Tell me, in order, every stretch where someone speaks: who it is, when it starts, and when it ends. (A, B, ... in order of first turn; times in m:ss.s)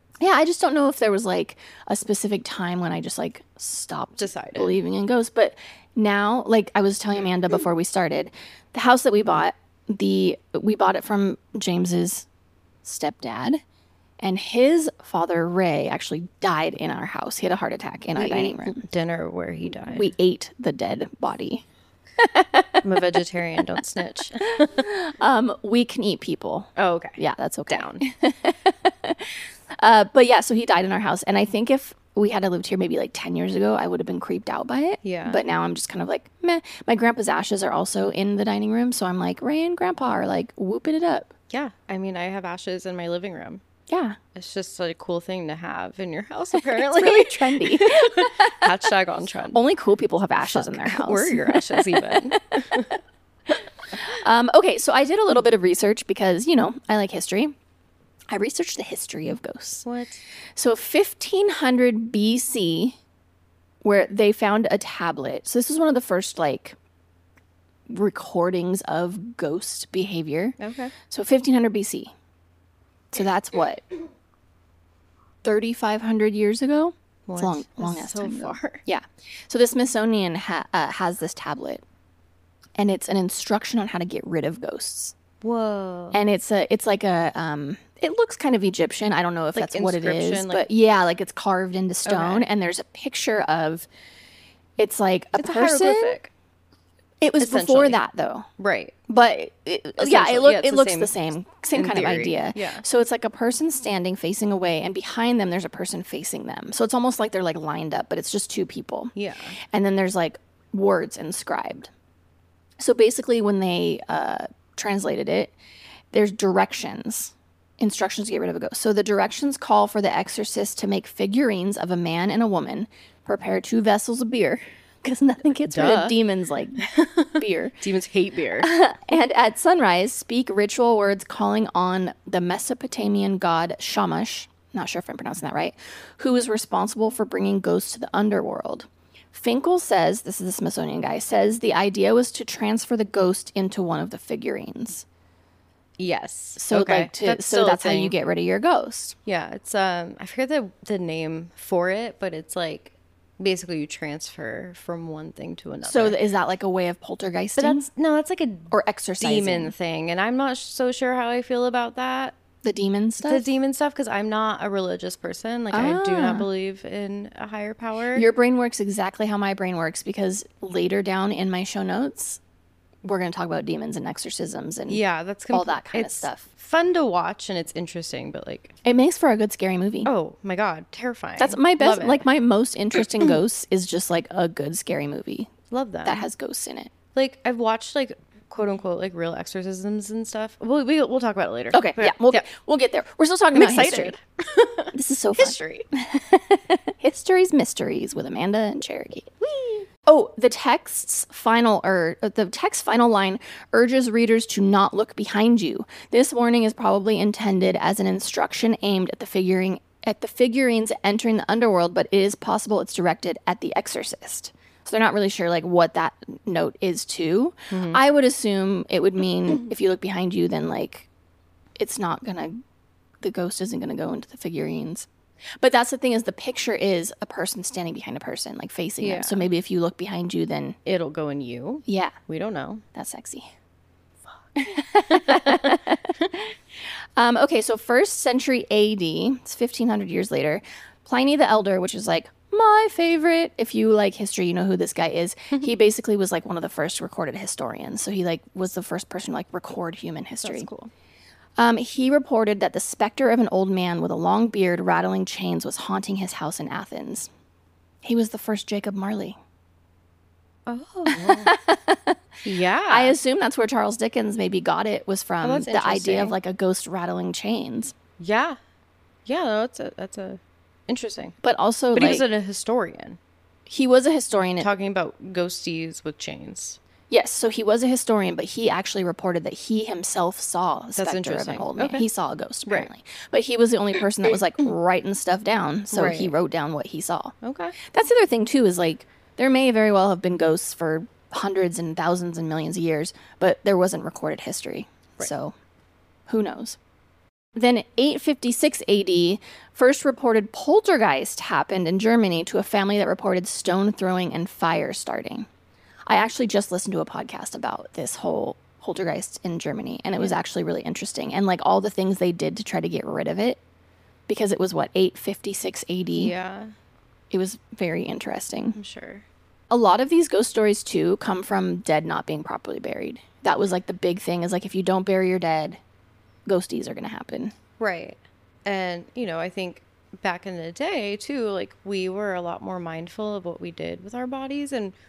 0:00.2-0:12.2 A
0:04.2-0:04.8 B
0:12.8-0:13.6 A
0:14.2-0:18.8 A
0:18.2-0:20.1 B
0:19.9-0:21.6 A
0:22.2-0:22.8 A
0:22.8-0:24.8 B
0:24.4-0:41.3 A
0:26.8-0:27.2 B
0:27.7-0:28.0 B
0:35.0-0:35.4 B
0:41.5-0:43.6 B
0:43.9-0:44.2 A
0:44.3-0:49.6 B
0:46.6-0:48.8 A
0:49.5-0:52.3 A
0:50.4-0:52.9 B
0:54.0-0:57.5 A
0:58.3-0:59.8 A
0:59.8-1:00.2 B
1:00.6-1:03.0 A
1:03.8-1:06.8 A
1:07.9-1:10.6 A
1:10.6-1:10.9 B
1:11.1-1:12.1 A
1:13.1-1:13.8 A
1:15.4-1:21.8 A
1:17.3-1:18.8 B
1:22.8-1:25.1 A
1:25.4-1:26.2 B
1:26.1-1:33.9 A
1:29.5-1:30.6 B
1:32.0-1:32.5 B
1:34.8-1:36.2 A
1:35.4-1:36.3 B
1:37.2-1:38.5 A
1:37.4-1:38.0 B
1:38.6-1:38.9 B
1:39.1-1:49.1 A
1:40.0-1:42.8 B
1:49.2-1:49.6 B
1:49.6-1:51.9 A
1:52.8-1:55.5 A
1:56.1-2:07.8 A
2:05.7-2:06.2 B
2:06.8-2:08.7 B
2:08.6-2:25.0 A
2:26.0-2:28.1 B
2:26.6-2:29.1 A
2:29.2-2:36.2 B
2:35.8-2:37.9 A
2:37.6-2:42.4 B
2:38.7-2:39.7 A
2:42.6-2:43.5 A
2:43.2-2:48.2 B
2:45.7-2:46.5 A
2:48.1-2:52.4 A
2:53.0-2:56.5 A
2:54.9-2:58.7 B
2:58.8-3:00.1 A
3:00.0-3:02.2 B
3:01.4-3:06.9 A
3:05.7-3:06.2 B
3:07.1-3:12.4 B
3:11.7-3:14.2 A
3:13.5-3:15.8 B
3:14.9-3:41.1 A
3:37.7-3:38.0 B
3:41.8-3:42.5 A
3:43.2-3:45.1 A
3:45.6-3:50.8 A
3:49.0-3:49.4 B
3:50.8-3:52.8 B
3:51.8-3:52.1 A
3:52.9-3:53.5 A
3:54.6-3:56.6 A
3:55.1-3:55.8 B
3:57.2-4:10.7 A
4:10.4-4:10.9 B
4:11.6-4:17.3 A
4:18.0-4:19.4 A
4:20.7-4:21.5 B
4:21.1-4:22.2 A
4:22.4-4:23.2 B
4:22.9-4:27.9 A
4:25.4-4:26.3 B
4:28.2-4:28.6 B
4:29.2-4:31.4 B
4:31.4-4:32.2 A
4:31.9-4:33.2 B
4:33.7-4:34.7 A
4:34.5-4:36.8 B
4:37.1-4:55.5 A
4:41.0-4:42.1 B
4:45.9-4:46.3 B
4:47.4-4:47.8 B
4:56.3-4:56.8 A
4:57.5-5:05.5 A
5:06.1-5:13.6 A
5:14.3-5:16.3 A
5:16.1-5:16.7 B
5:17.3-5:18.8 A
5:18.8-5:19.2 B
5:19.7-5:25.8 A
5:26.4-5:27.5 A
5:27.8-5:34.9 B